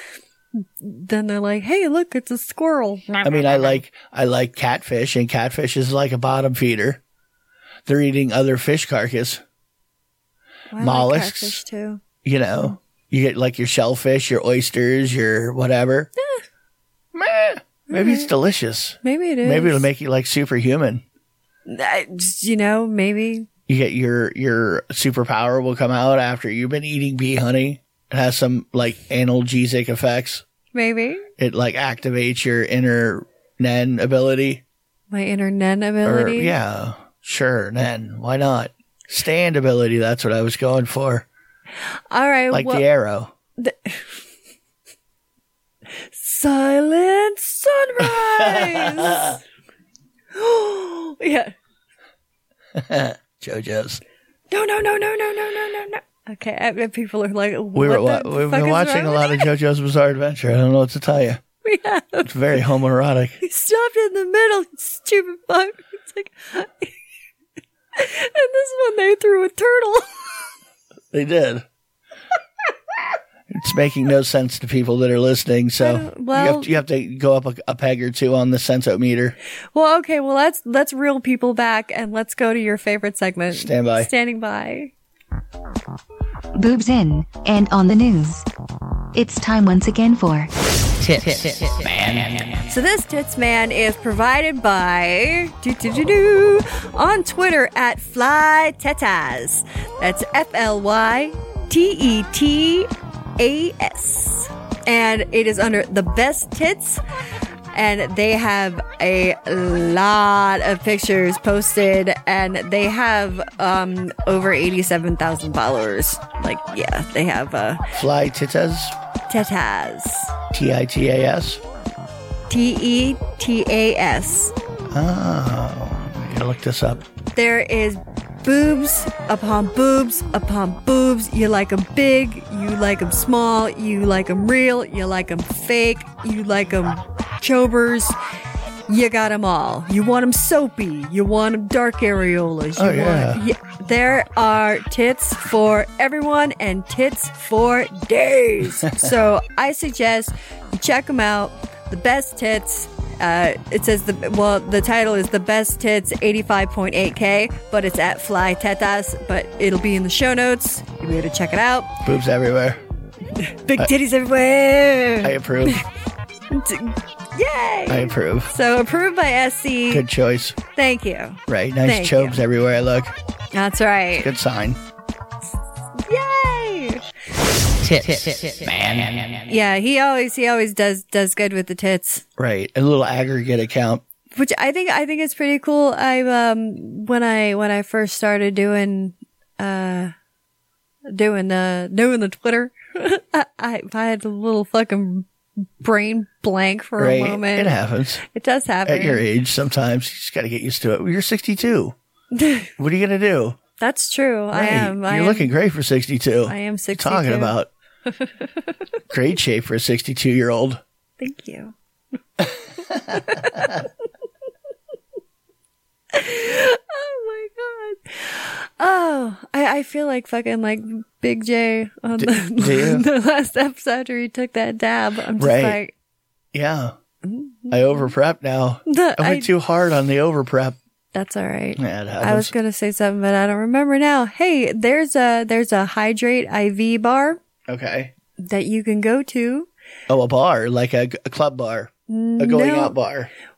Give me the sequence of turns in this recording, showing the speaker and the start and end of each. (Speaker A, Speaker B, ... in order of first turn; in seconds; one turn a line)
Speaker A: 0.6-3.8
Speaker B: 3.2-7.0
Speaker B: 7.8-9.4
Speaker A: 10.7-12.0
Speaker B: 10.8-11.6
Speaker B: 12.2-16.1
Speaker B: 17.1-21.0
Speaker A: 17.9-18.3
Speaker A: 19.0-19.8
Speaker A: 21.7-23.5
Speaker B: 23.7-30.4
Speaker A: 30.7-31.3
Speaker B: 31.4-34.6
Speaker A: 35.1-36.5
Speaker B: 36.0-41.2
Speaker A: 42.1-42.8
Speaker B: 42.5-43.3
Speaker A: 43.6-44.1
Speaker A: 46.1-49.4
Speaker B: 48.0-49.4
Speaker A: 50.3-51.5
Speaker B: 52.8-54.0
Speaker A: 54.5-59.5
Speaker B: 57.7-61.4
Speaker A: 61.6-62.6
Speaker B: 62.2-63.4
Speaker A: 63.4-66.9
Speaker A: 67.9-70.4
Speaker B: 71.1-71.6
Speaker B: 73.5-79.3
Speaker A: 75.8-76.7
Speaker A: 79.7-84.9
Speaker B: 83.5-84.1
Speaker C: 86.5-88.5
Speaker C: 89.1-90.5
Speaker C: 91.1-91.4
Speaker A: 92.7-107.0
Speaker A: 107.7-117.8
Speaker B: 117.9-118.9
Speaker A: 119.3-120.3
Speaker B: 120.5-121.6
Speaker A: 122.5-124.5
Speaker B: 124.9-127.0
Speaker A: 127.3-138.1
Speaker A: 138.9-161.9
Speaker B: 142.8-143.4
Speaker B: 162.0-162.8
Speaker A: 163.4-165.8
Speaker B: 165.2-165.8
Speaker A: 166.5-170.0
Speaker B: 167.9-168.5
Speaker B: 169.9-170.6
Speaker A: 170.7-172.4
Speaker B: 171.5-173.1
Speaker A: 173.5-174.3
Speaker B: 174.2-174.8
Speaker A: 176.1-177.0
Speaker B: 177.8-179.4
Speaker A: 179.5-182.2
Speaker B: 182.4-184.0
Speaker A: 184.3-190.1
Speaker A: 191.1-195.3
Speaker A: 195.8-197.7
Speaker B: 197.0-198.2
Speaker A: 198.2-199.2
Speaker B: 198.8-201.9
Speaker A: 202.3-202.7
Speaker B: 202.8-203.6
Speaker A: 203.8-205.5
Speaker B: 204.5-207.7
Speaker A: 206.5-207.5
Speaker B: 209.1-210.8
Speaker A: 211.2-211.7
Speaker B: 212.9-213.8
Speaker A: 213.1-213.9
Speaker A: 216.1-225.9
Speaker B: 222.2-223.0
Speaker B: 225.4-225.8
Speaker B: 226.5-226.9
Speaker A: 227.2-228.1
Speaker B: 227.7-230.8
Speaker A: 228.9-229.5
Speaker A: 231.1-237.4
Speaker B: 231.8-232.5
Speaker B: 237.7-238.1
Speaker A: 238.4-239.7
Speaker B: 240.1-243.3
Speaker A: 242.1-242.9